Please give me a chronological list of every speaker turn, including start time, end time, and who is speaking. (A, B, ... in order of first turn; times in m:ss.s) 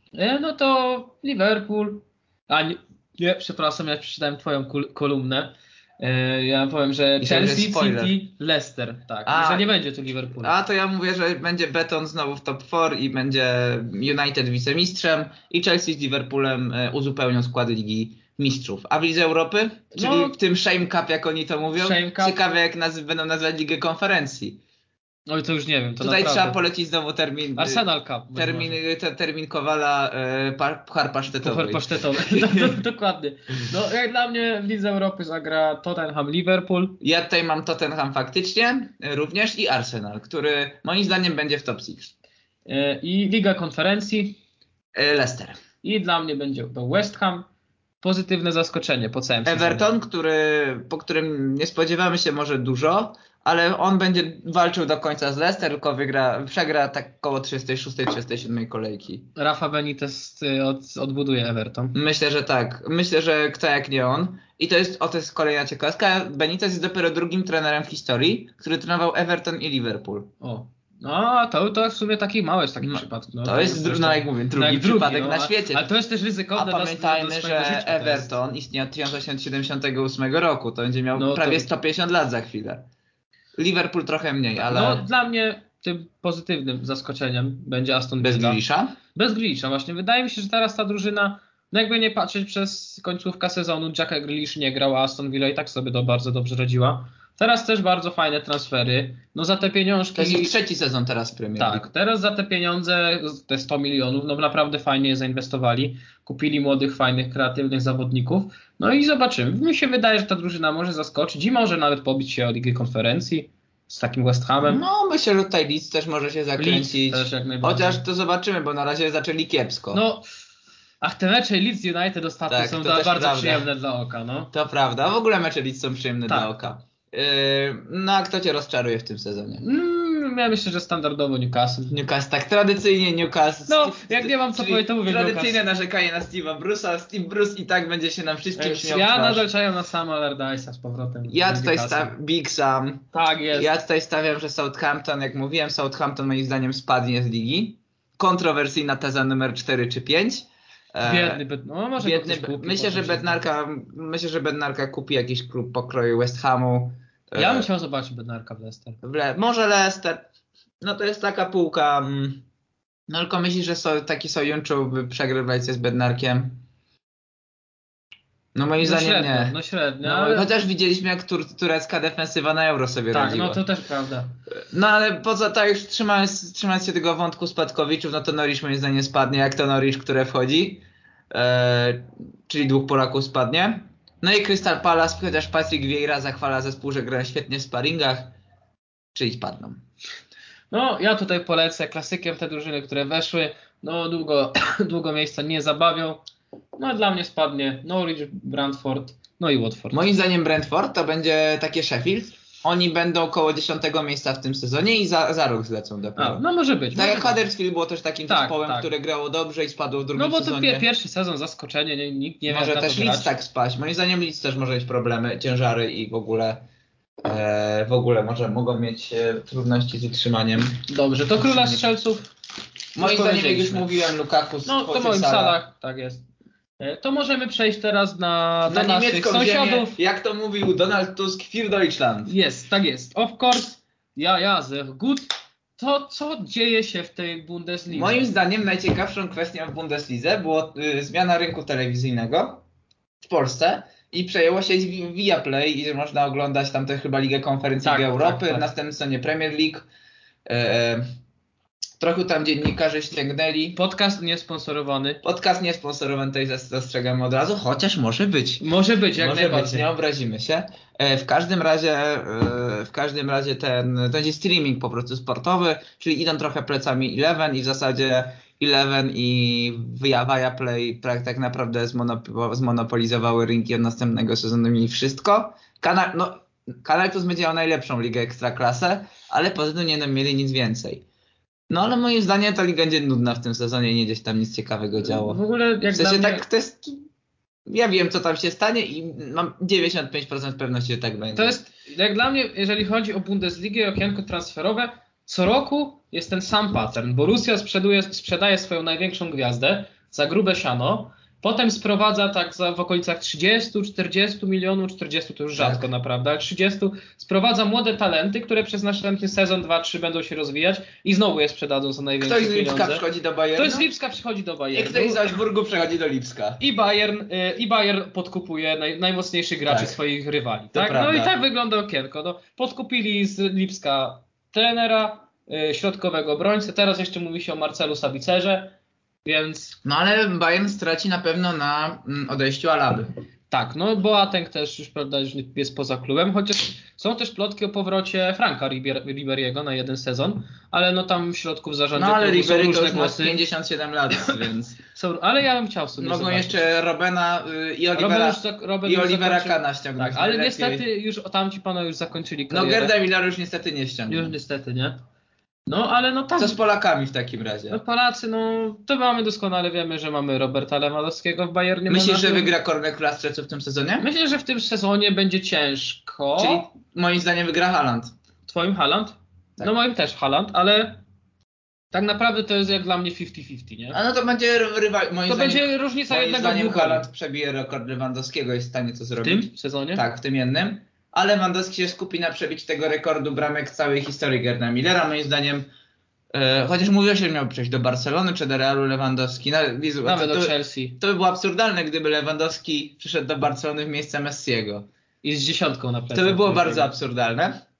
0:00.1-0:10.5 A
0:07.2-0:08.2 B
0:09.2-0:09.7 B
0:10.4-0:24.6 B
0:19.9-0:20.4 A
0:21.7-0:22.4 A
0:25.3-0:26.6 A
0:26.0-0:32.8 B
0:27.6-0:28.8 A
0:31.3-0:37.0 A
0:37.0-0:42.1 B
0:42.6-0:44.4 A
0:44.9-0:45.6 B
0:45.8-0:47.5 A
0:48.0-0:49.9 A
0:49.4-0:59.3 B
0:59.4-1:01.9 A
1:01.9-1:10.3 B
1:10.4-1:18.3 A
1:12.8-1:15.8 B
1:16.5-1:22.8 B
1:21.2-1:21.7 A
1:23.6-1:25.0 B
1:24.6-1:28.6 A
1:28.2-1:29.0 B
1:29.1-1:40.5 A
1:40.2-1:41.9 B
1:41.6-1:54.8 A
1:54.6-2:00.0 B
1:56.6-1:58.0 A
1:59.9-2:00.2 A
2:01.0-2:04.5 A
2:02.5-2:03.7 B
2:04.5-2:09.6 B
2:09.6-2:11.9 A
2:11.9-2:19.4 B
2:13.7-2:15.6 A
2:18.6-2:22.1 A
2:21.3-2:31.4 B
2:23.1-2:23.7 A
2:31.0-2:33.4 A
2:32.0-2:37.7 B
2:37.3-2:39.0 A
2:39.0-2:40.2 B
2:40.8-2:42.4 B
2:43.1-2:46.6 B
2:48.5-2:53.6 B
2:48.8-2:50.5 A
2:53.1-2:54.3 A
2:54.5-3:08.3 B
3:09.1-3:09.8 B
3:10.7-3:16.2 A
3:16.8-3:20.0 A
3:19.9-3:30.9 B
3:26.2-3:27.4 A
3:28.3-3:28.9 A
3:30.2-3:33.3 A
3:32.5-3:36.6 B
3:37.2-3:40.8 B
3:40.9-3:42.3 A
3:41.4-3:41.8 B
3:43.0-3:43.9 A
3:43.0-3:45.6 B
3:44.6-3:46.2 A
3:46.8-3:49.9 A
3:48.7-3:52.3 B
3:52.3-3:58.3 A
3:57.9-4:02.6 B
4:03.2-4:09.8 B
4:07.8-4:08.7 A
4:10.4-4:11.1 B
4:12.0-4:13.8 B
4:13.8-4:15.2 A
4:15.2-4:18.6 B
4:18.6-4:19.9 A
4:19.2-4:41.0 B
4:41.7-4:45.4 B
4:45.0-4:46.4 A
4:45.9-4:47.0 B
4:47.7-4:51.6 B
4:51.3-5:13.0 A
5:05.6-5:05.8 B
5:12.2-5:13.9 B
5:13.6-5:15.3 A
5:14.7-5:16.6 B
5:16.6-5:29.8 A
5:19.7-5:20.0 B
5:20.7-5:21.3 B
5:29.8-5:33.1 B
5:33.5-5:43.4 A
5:42.0-5:44.8 B
5:44.1-5:46.6 A
5:46.0-5:50.8 B
5:47.9-5:53.0 A
5:52.5-5:54.3 B
5:54.1-5:55.0 A
5:55.7-5:56.6 A
5:56.4-5:57.8 B
5:57.7-6:02.5 A
6:01.9-6:04.1 B
6:04.0-6:06.7 A
6:06.4-6:08.1 B
6:08.5-6:11.0 A
6:11.9-6:14.0 A
6:13.9-6:25.7 B
6:15.3-6:17.1 A
6:19.2-6:20.0 A
6:26.3-6:34.9 B
6:30.0-6:31.0 A
6:35.2-6:36.9 A
6:36.1-6:37.6 B